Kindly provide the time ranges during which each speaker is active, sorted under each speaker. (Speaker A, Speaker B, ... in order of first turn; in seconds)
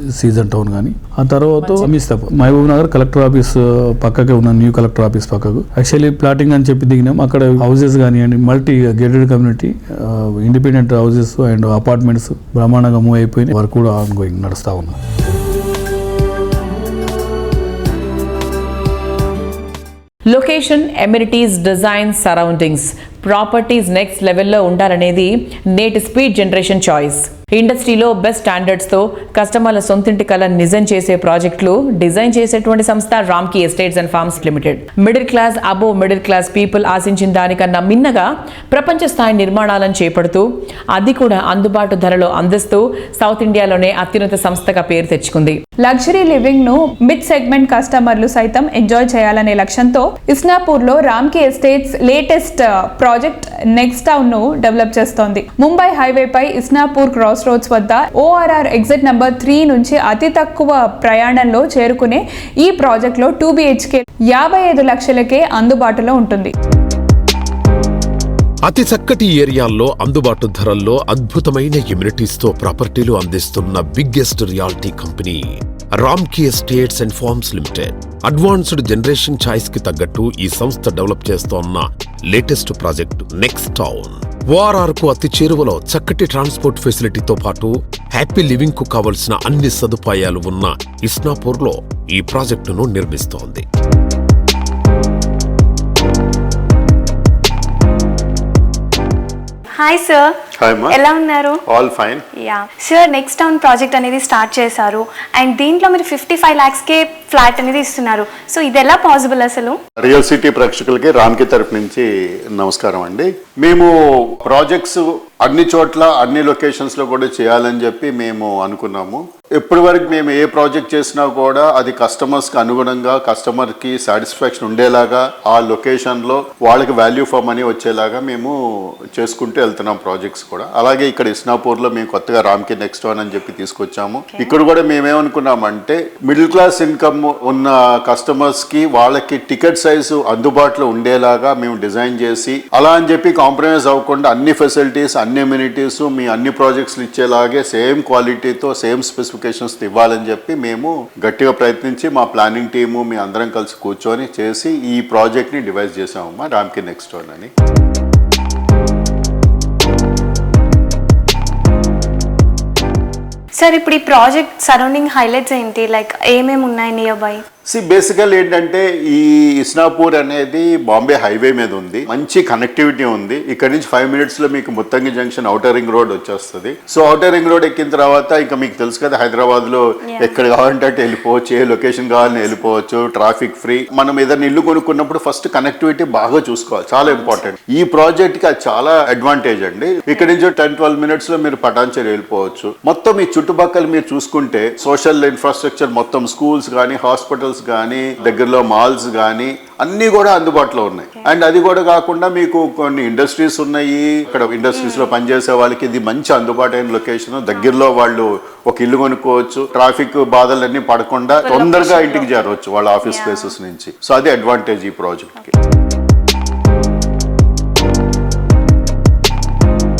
Speaker A: 0.1-15.0
Speaker B: 20.3-45.6
Speaker C: 45.8-66.5
Speaker D: 68.7-93.6
Speaker E: 99.7-101.6, 102.4-109.8, 134.3-134.7, 163.6-167.4, 180.1-180.4, 182.2-182.7, 187.0-187.5, 190.1-190.4, 204.7-205.1, 207.5-207.8, 211.4-212.3, 213.0-213.6
Speaker F: 100.6-100.9, 101.7-102.2, 110.0-113.9, 114.5-128.5, 129.1-157.5, 167.7-215.5